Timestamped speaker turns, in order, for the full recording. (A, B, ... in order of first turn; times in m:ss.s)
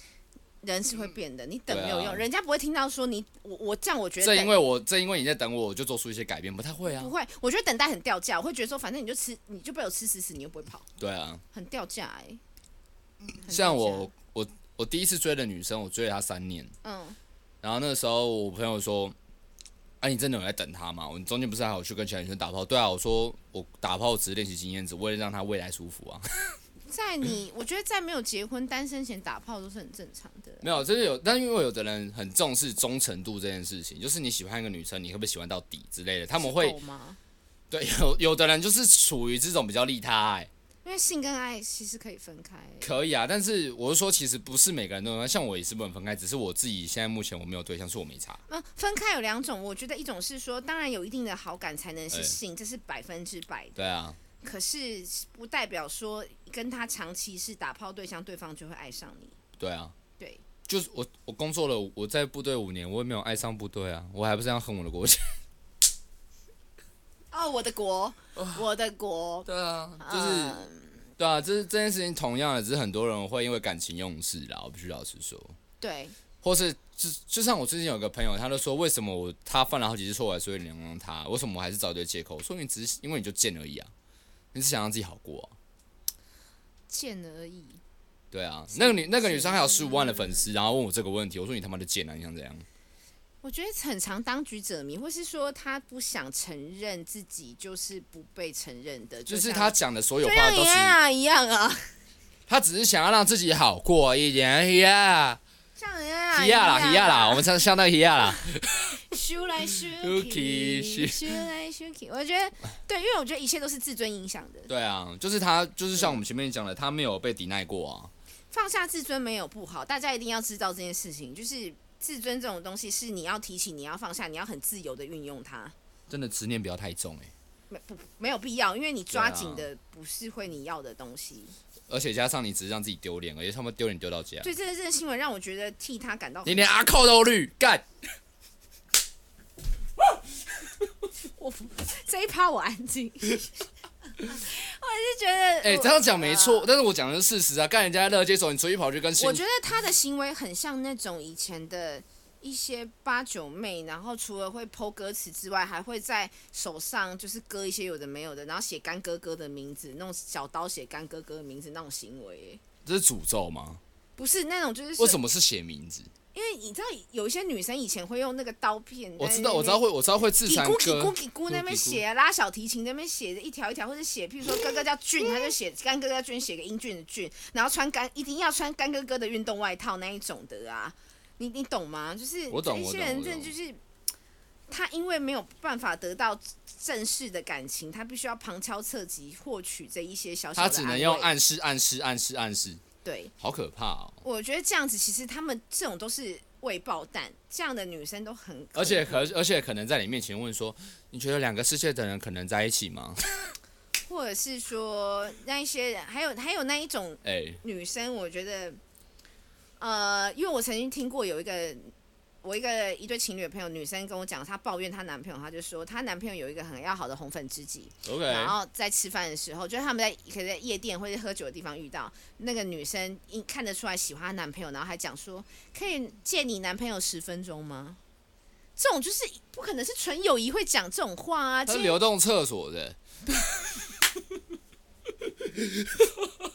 0:00.6-0:04.6 A
0:01.7-0:02.2 B
0:04.2-0:07.1 B
0:06.8-0:10.9 A
0:11.0-0:11.4 B
0:11.5-0:12.4 A
0:13.3-0:16.7 B
0:13.4-0:14.1 A
0:16.8-0:17.2 A
0:17.6-0:19.1 B
0:20.0-0:26.2 B
0:26.9-0:30.8 A
0:30.6-0:36.8 B
0:36.4-0:37.2 A
0:37.7-0:40.5 B
0:40.8-0:42.9 A
0:42.8-0:48.4 B
0:48.5-0:53.8 A
0:52.1-0:52.4 B
0:53.8-0:54.2 B
0:54.4-0:59.4 A
0:59.6-0:59.9 B
1:00.7-1:05.4 B
1:07.3-1:09.5 A
1:08.4-1:08.6 B
1:09.4-1:10.6 B
1:10.0-1:10.9 A
1:11.2-1:15.6 B
1:15.8-1:16.1 A
1:16.4-1:23.9 B
1:24.5-1:25.5 B
1:26.9-1:27.8 A
1:28.3-1:32.6 B
1:28.7-1:30.5 A
1:33.4-1:41.9 A
1:39.2-1:41.0 B
1:42.5-1:45.4 B
1:45.8-1:47.5 A
1:46.3-1:49.0 B
1:49.0-1:54.7 A
1:50.0-1:51.4 B
1:54.7-1:58.1 B
1:58.5-2:05.7 A
2:06.1-2:07.3 B
2:07.7-2:11.5 A
2:09.1-2:09.7 B
2:11.9-2:14.5 B
2:14.4-2:16.7 A
2:16.4-2:17.8 B
2:21.2-2:23.5 A
2:24.2-2:26.7 A
2:25.6-2:29.4 B
2:29.2-2:42.6 A
2:42.8-2:43.8 B
2:44.2-2:45.2 A
2:45.0-2:46.1 B
2:46.3-2:49.8 A
2:49.2-2:52.0 B
2:50.4-3:03.8 A
3:02.5-3:03.5 B
3:04.7-3:11.3 A
3:10.6-3:12.8 B
3:13.0-3:13.3 A
3:13.4-3:14.2 B
3:14.2-3:19.3 A
3:18.7-3:23.2 B
3:24.0-3:28.8 A
3:27.2-3:27.6 B
3:29.8-3:31.9 A
3:32.4-3:48.0 A
3:38.0-3:38.6 B
3:48.8-3:52.0 A
3:51.6-3:53.0 B
3:55.4-3:56.3 B